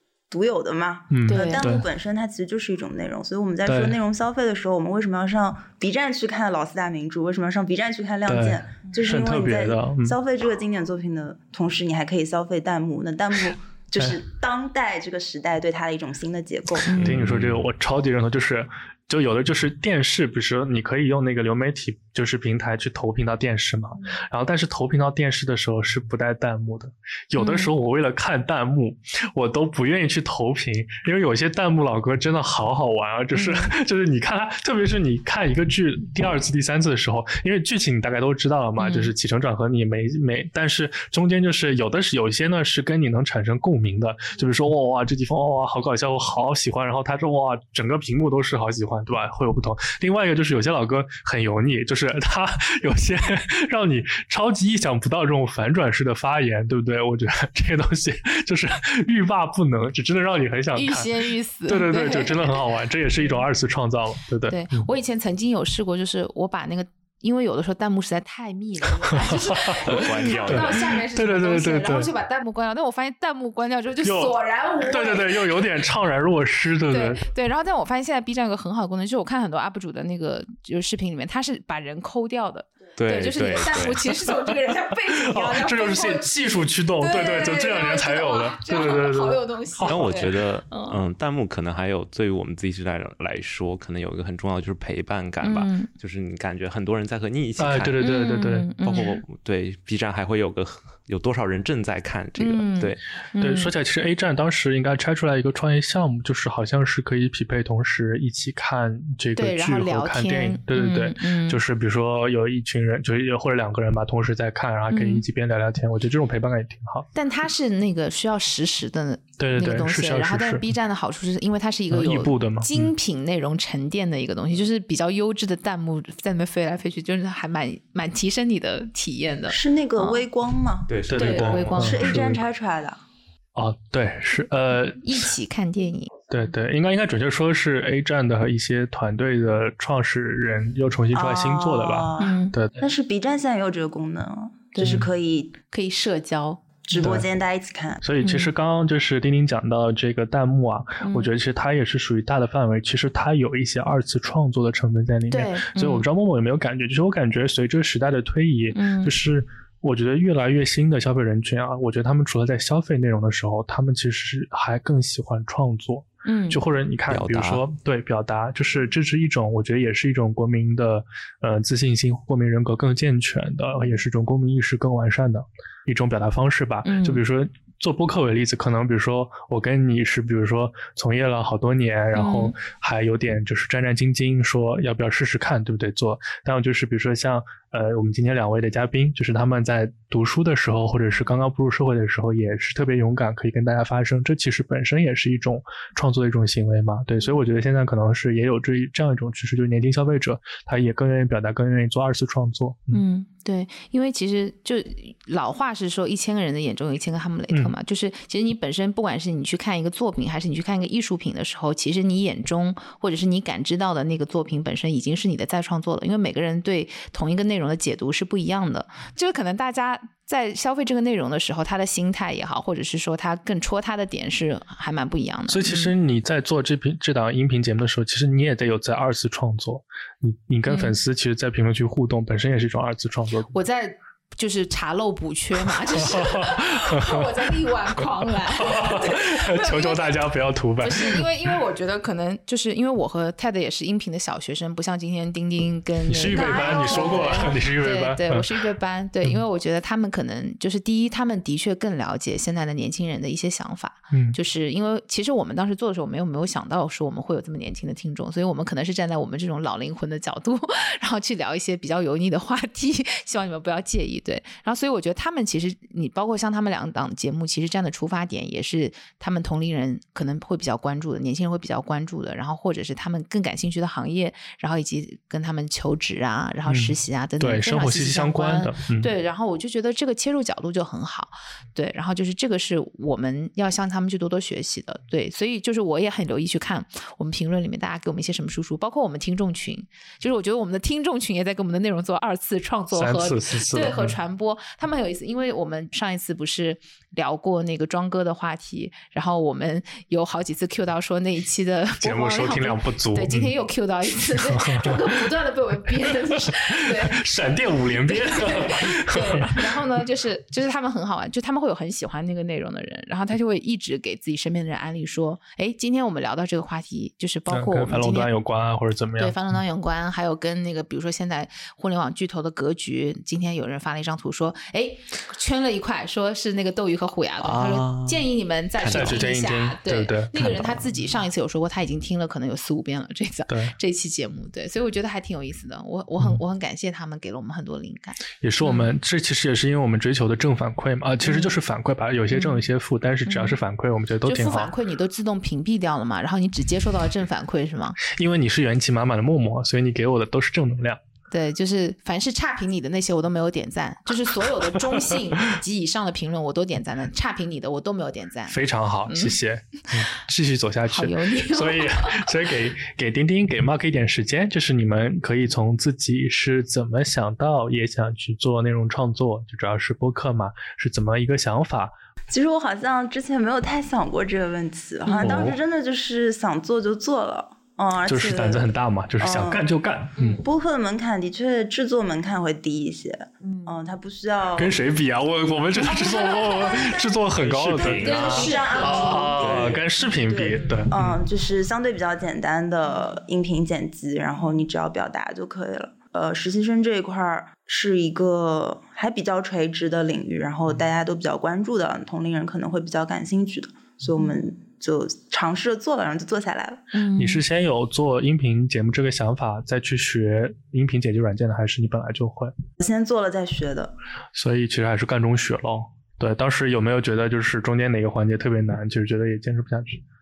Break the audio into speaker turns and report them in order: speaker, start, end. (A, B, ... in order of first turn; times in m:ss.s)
0:00.3-0:16.9 A
0:01.1-0:01.9 B
0:01.3-0:01.7 C
0:03.6-0:04.0 B
0:08.2-0:10.2 B
0:16.9-0:17.6 D
0:16.9-1:04.8 B
0:27.4-0:27.7 C
0:33.3-0:33.7 C
0:38.8-0:39.1 C
1:00.7-1:02.6 C
1:03.2-1:03.4 C
1:04.5-1:15.6 C
1:09.1-1:12.1 B
1:09.7-1:11.0 D
1:14.0-1:17.2 B
1:16.9-1:31.0 C
1:23.0-1:24.1 D
1:25.1-1:30.2 B
1:29.8-1:38.0 D
1:35.4-1:35.9 C
1:37.6-1:38.7 B
1:38.0-1:39.2 C
1:38.8-1:43.0 D
1:42.4-1:43.7 C
1:43.4-1:57.1 B
1:49.4-1:51.6 C
1:54.9-1:55.2 C
1:57.1-2:10.2 C
1:59.4-2:00.7 B
2:01.9-2:02.9 B
2:09.5-2:13.0 A
2:10.9-2:11.9 D
2:11.1-2:12.4 B
2:11.1-2:12.2 C
2:13.5-2:15.2 B
2:14.9-2:16.1 C
2:16.3-2:22.8 B
2:21.1-2:25.6 A
2:22.2-2:22.6 C
2:24.8-2:25.1 B
2:25.7-2:26.6 C
2:26.9-2:28.0 A
2:26.9-2:27.3 B
2:28.0-3:23.0 B
2:28.2-2:28.5 C
2:31.0-2:31.3 C
2:35.3-2:36.0 C
2:38.7-2:39.1 C
2:46.2-2:46.6 C
2:47.1-2:47.6 D
2:56.8-2:57.2 C
3:02.1-3:02.6 C
3:22.9-3:45.9 C
3:45.5-3:53.5 B
3:50.7-3:51.0 C
3:53.5-4:00.2 C
3:55.9-3:57.5 B
3:58.5-4:01.3 B
4:00.8-5:07.2 C
4:06.1-4:08.5 B
4:14.1-4:14.4 B
4:36.7-4:39.1 B
4:52.9-4:54.2 B
5:02.0-5:03.5 B
5:04.3-5:05.2 B
5:06.0-5:10.0 B
5:08.0-5:18.3 C
5:17.5-5:19.4 B
5:19.2-5:38.9 C
5:27.4-5:29.3 D
5:28.9-5:30.8 B
5:33.5-5:33.7 B
5:38.4-5:44.7 B
5:41.2-5:41.5 C
5:42.3-5:42.6 C
5:43.2-5:43.6 C
5:44.2-5:48.0 C
5:48.0-5:51.0 B
5:51.3-5:59.4 C
5:54.6-5:55.5 B
5:58.5-6:11.9 B
6:00.9-6:02.3 C
6:12.3-6:19.6 A
6:15.0-6:15.5 C
6:15.2-6:15.6 B
6:18.0-6:20.4 B
6:20.2-6:20.4 C
6:20.4-6:24.8 A
6:23.4-6:23.8 C
6:24.6-6:31.2 B
6:25.9-6:26.9 C
6:27.4-6:28.8 D
6:27.8-6:29.4 C
6:27.8-6:46.9 A
6:29.3-6:29.8 D
6:30.5-6:30.9 C
6:46.9-6:47.4 C
6:47.2-6:52.5 B
6:52.8-6:53.9 A
6:54.3-7:00.0 B